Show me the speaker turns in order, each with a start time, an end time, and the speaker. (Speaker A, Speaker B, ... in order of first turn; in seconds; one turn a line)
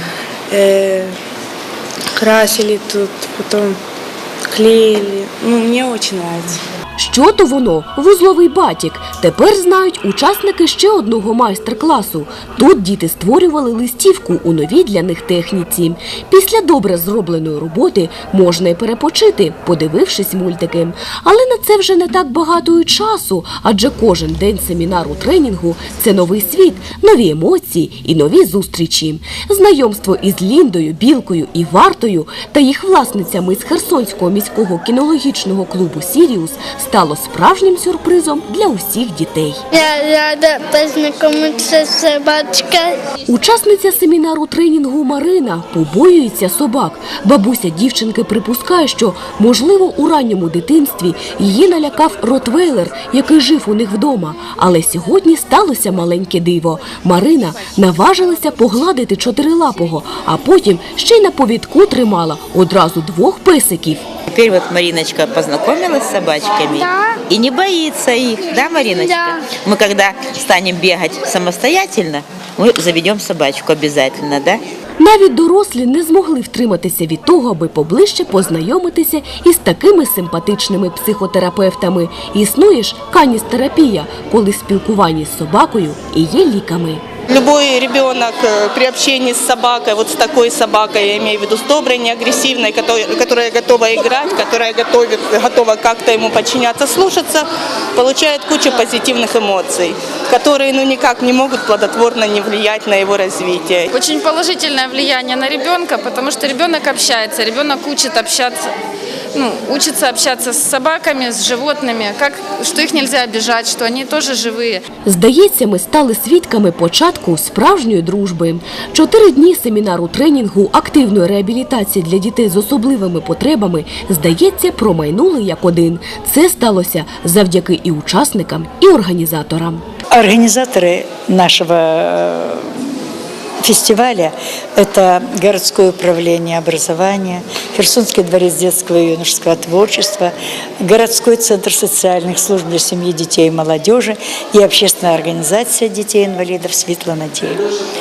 Speaker A: 0.5-1.1
Speaker A: 2.1-3.8
Speaker A: 4.5-6.6
Speaker B: 7.0-39.6
Speaker C: 39.7-43.0
Speaker B: 43.3-64.0
Speaker D: 64.3-74.6
Speaker B: 75.0-87.0
Speaker E: 87.3-103.9
Speaker F: 103.9-108.7
Speaker F: 109.3-114.8
Speaker B: 115.0-129.8
Speaker G: 130.1-132.7
Speaker G: 133.6-147.6